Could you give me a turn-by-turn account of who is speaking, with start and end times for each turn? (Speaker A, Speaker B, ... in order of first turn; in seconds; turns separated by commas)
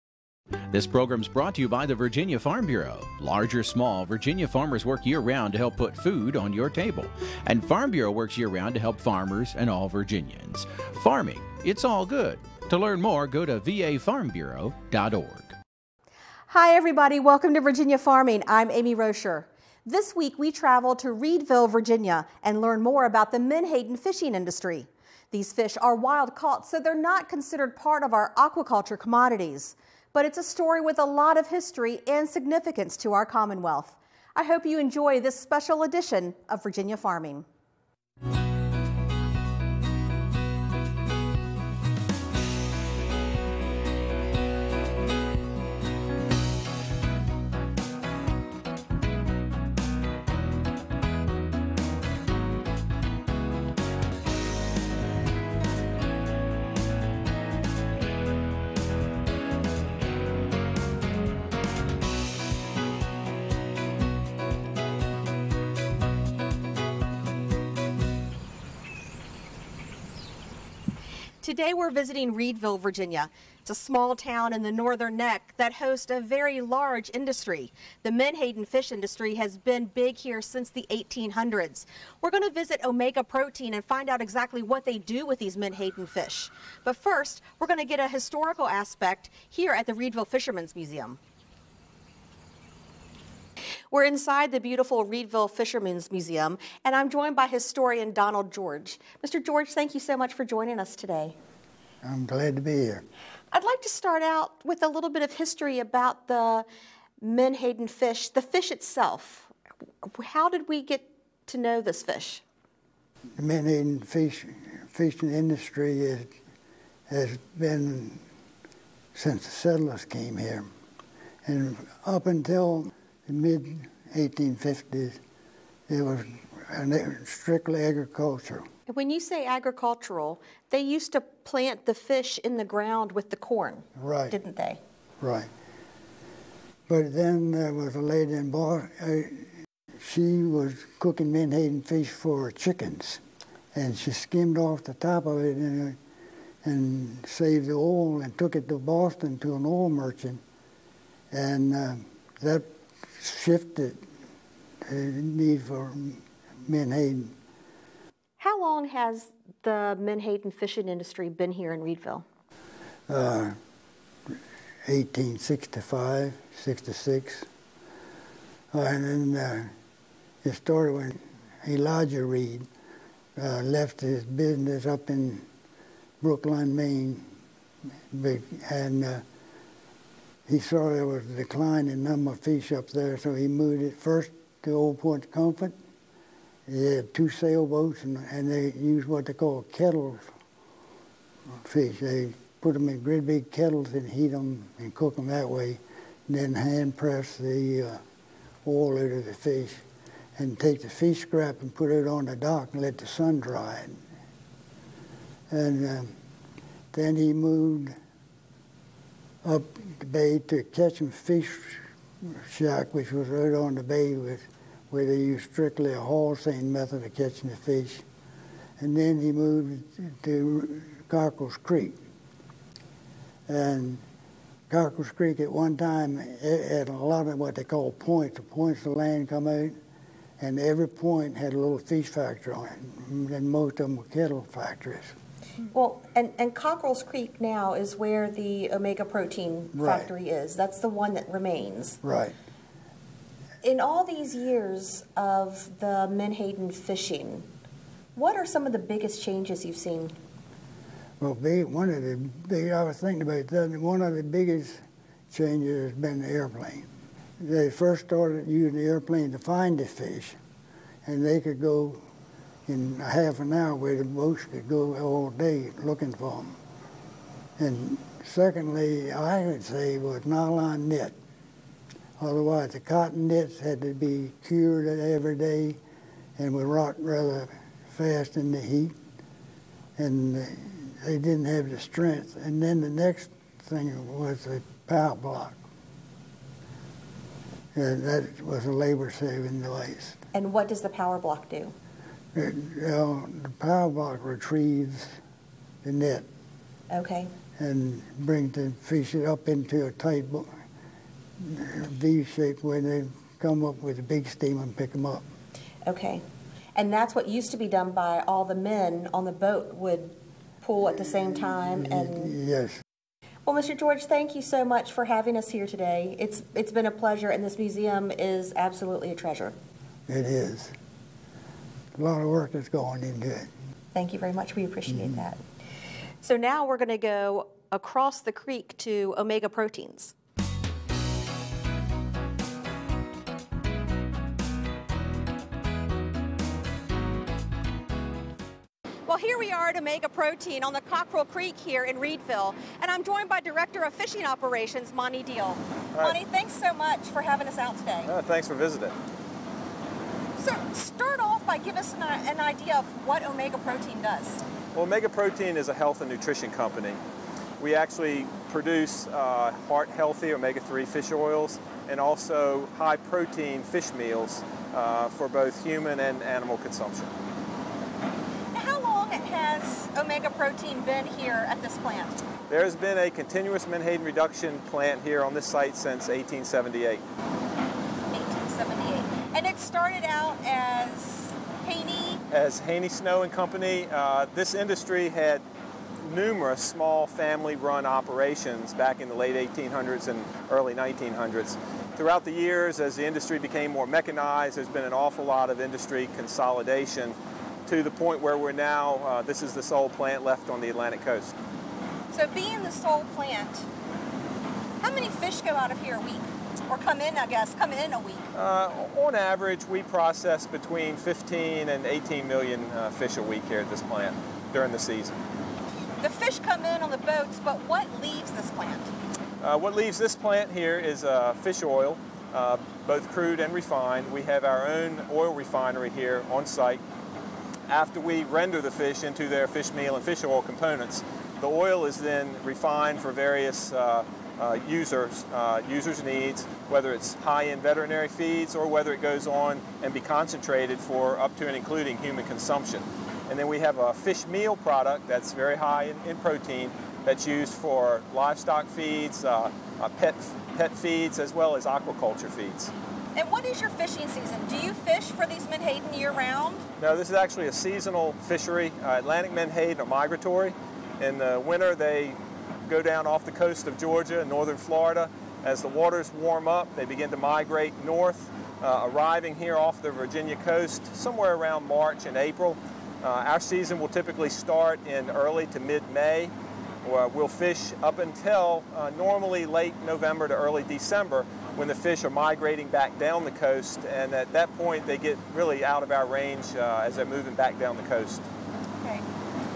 Speaker A: 0.7-15.6, Speaker B: 16.5-37.5, Speaker B: 71.4-91.2, Speaker B: 93.9-101.4, Speaker C: 102.0-103.0, Speaker B: 103.5-106.7, Speaker B: 107.2-109.5, Speaker B: 110.0-112.4, Speaker C: 113.4-116.3, Speaker C: 117.1-118.2, Speaker C: 119.2-120.7, Speaker C: 121.4-125.2, Speaker C: 125.9-128.7, Speaker B: 128.9-134.8, Speaker C: 134.0-134.3, Speaker C: 135.2-135.5, Speaker C: 136.9-143.2, Speaker C: 143.7-146.0, Speaker C: 146.6-150.4, Speaker C: 151.3-154.0, Speaker C: 154.8-157.3, Speaker B: 158.4-162.2, Speaker C: 163.1-163.6, Speaker C: 164.8-167.5, Speaker C: 168.7-169.7, Speaker C: 170.4-172.7, Speaker C: 173.4-175.5, Speaker C: 176.2-177.3, Speaker C: 178.1-179.2, Speaker C: 180.5-185.8, Speaker C: 186.7-190.3, Speaker C: 191.6-198.0, Speaker C: 198.7-199.8, Speaker C: 200.4-204.0, Speaker C: 205.5-206.1, Speaker C: 206.9-208.0, Speaker C: 209.4-218.1, Speaker C: 218.8-222.0, Speaker C: 223.5-224.0, Speaker C: 224.7-229.8, Speaker C: 230.4-235.2, Speaker B: 235.7-242.0, Speaker C: 239.8-240.1, Speaker C: 242.0-242.4, Speaker B: 243.6-247.5, Speaker B: 248.2-250.2, Speaker C: 251.2-256.9, Speaker C: 257.4-260.4, Speaker C: 261.1-262.0, Speaker C: 262.7-266.6, Speaker C: 267.6-271.2, Speaker C: 272.2-275.8, Speaker C: 276.4-278.9, Speaker C: 280.0-285.6, Speaker C: 287.7-290.2, Speaker B: 290.3-291.7, Speaker C: 292.3-295.2, Speaker C: 295.8-296.3, Speaker B: 296.9-297.3, Speaker C: 297.6-300.5, Speaker C: 301.4-305.2, Speaker B: 305.9-306.2, Speaker B: 306.8-312.3, Speaker C: 311.5-312.8, Speaker B: 313.5-319.6, Speaker C: 320.1-320.7, Speaker C: 321.9-323.5, Speaker B: 323.9-325.4, Speaker B: 326.2-330.1, Speaker B: 339.1-348.1, Speaker D: 348.1-348.9, Speaker B: 350.4-354.4, Speaker D: 354.7-357.0, Speaker D: 357.6-367.1, Speaker B: 368.5-372.2, Speaker D: 372.5-377.0, Speaker B: 378.1-382.2, Speaker D: 382.3-385.4, Speaker D: 386.0-397.2, Speaker D: 397.7-401.3, Speaker B: 402.1-403.7, Speaker B: 404.8-408.3, Speaker D: 408.3-415.2, Speaker B: 416.0-418.9, Speaker D: 419.4-426.8, Speaker D: 427.7-452.7, Speaker B: 453.2-456.6, Speaker D: 456.8-476.3, Speaker D: 476.8-488.3, Speaker B: 488.8-489.1